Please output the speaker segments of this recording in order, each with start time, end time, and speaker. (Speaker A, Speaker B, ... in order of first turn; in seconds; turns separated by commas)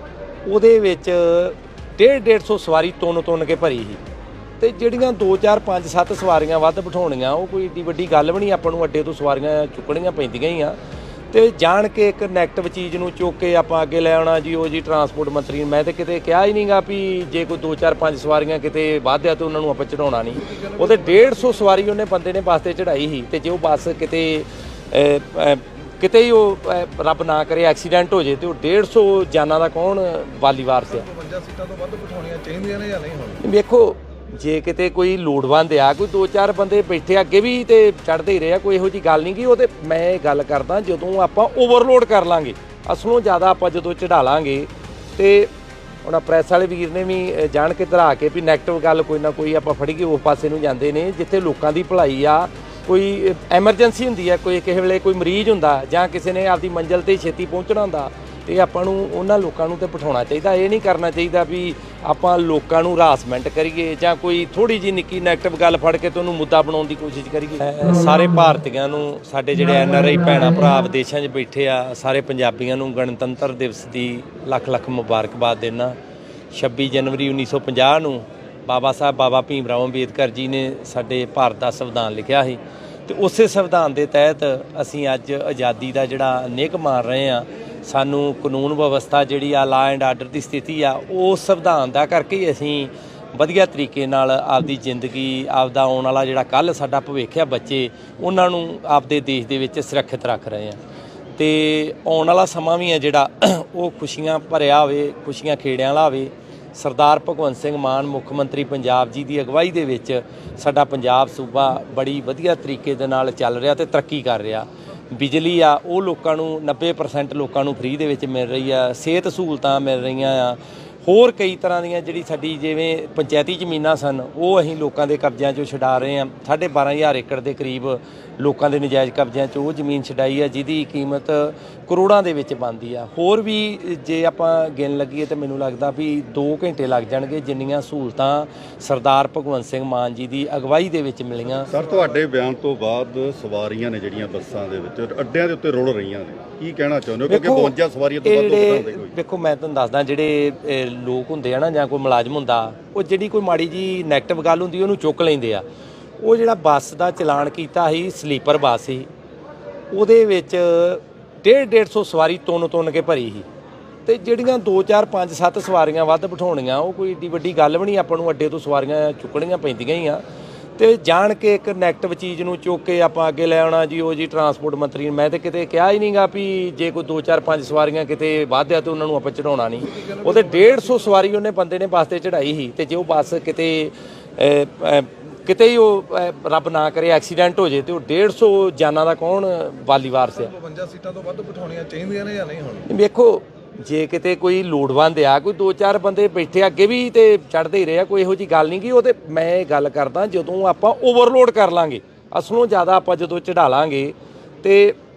Speaker A: 0.4-4.0, Speaker A: 4.6-10.8, Speaker A: 11.3-31.0, Speaker B: 20.4-21.7, Speaker B: 30.9-33.4, Speaker A: 33.4-45.5, Speaker A: 46.0-76.0, Speaker A: 76.5-100.8, Speaker A: 101.4-141.7, Speaker B: 141.5-142.1, Speaker C: 141.7-149.2, Speaker A: 147.2-155.6, Speaker A: 156.2-159.1, Speaker A: 159.9-163.5, Speaker A: 164.1-170.2, Speaker A: 170.8-190.5, Speaker B: 179.8-181.2, Speaker B: 190.3-192.9, Speaker A: 192.9-205.0